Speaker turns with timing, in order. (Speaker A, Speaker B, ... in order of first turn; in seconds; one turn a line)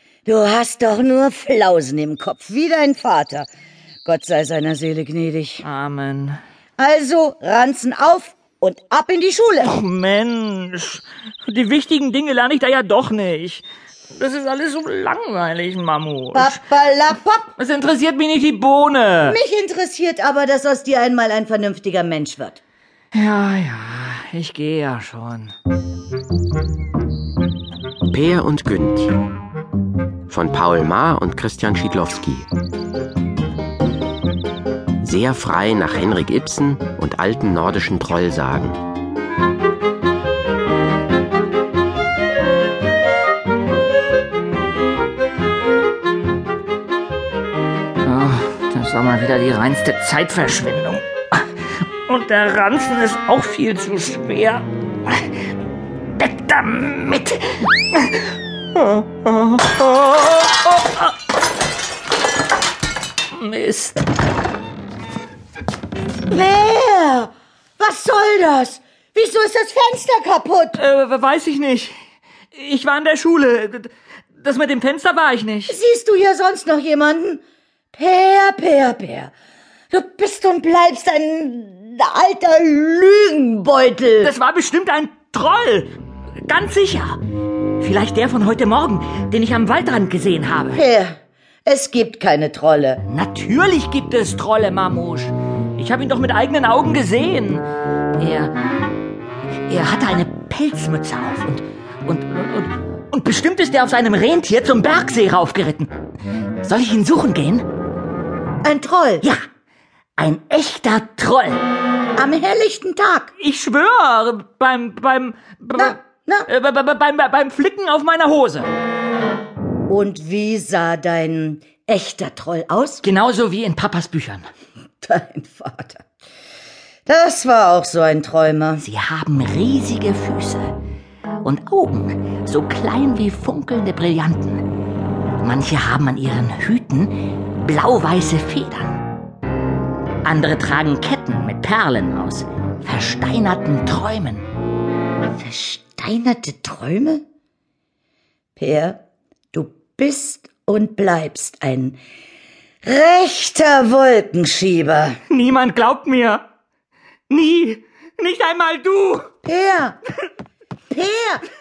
Speaker A: 0.3-3.5
Speaker A: 4.0-5.7
Speaker B: 5.6-6.4
Speaker A: 6.8-9.7
Speaker B: 9.6-16.6
Speaker A: 16.3-17.5
Speaker B: 17.6-19.4
Speaker A: 19.2-22.6
Speaker B: 23.1-25.5
Speaker C: 28.1-29.2
Speaker C: 30.3-32.5
Speaker C: 35.0-38.8
Speaker B: 48.0-51.5
Speaker B: 52.1-55.3
Speaker B: 56.1-61.1
Speaker B: 63.3-64.0
Speaker A: 66.3-70.8
Speaker B: 70.8-71.9
Speaker B: 72.5-75.8
Speaker A: 75.7-77.4
Speaker A: 78.0-79.3
Speaker A: 79.9-84.3
Speaker B: 84.2-85.9
Speaker B: 86.5-87.2
Speaker B: 87.8-90.8
Speaker A: 90.7-93.0
Speaker B: 93.1-98.5
Speaker B: 99.7-105.9
Speaker B: 106.6-107.7
Speaker A: 108.6-109.3
Speaker B: 110.2-111.6
Speaker A: 112.2-113.3
Speaker B: 113.4-118.7
Speaker A: 115.8-116.5
Speaker A: 119.9-123.0
Speaker B: 123.0-124.4
Speaker A: 125.0-126.0
Speaker A: 127.1-128.8
Speaker B: 128.8-130.7
Speaker B: 131.4-134.6
Speaker B: 135.4-139.0
Speaker B: 140.2-144.5
Speaker A: 145.4-147.2
Speaker A: 148.6-149.0
Speaker A: 149.5-152.0
Speaker A: 152.8-155.2
Speaker B: 155.3-156.4
Speaker B: 157.3-159.3
Speaker A: 159.4-160.0
Speaker A: 160.9-161.4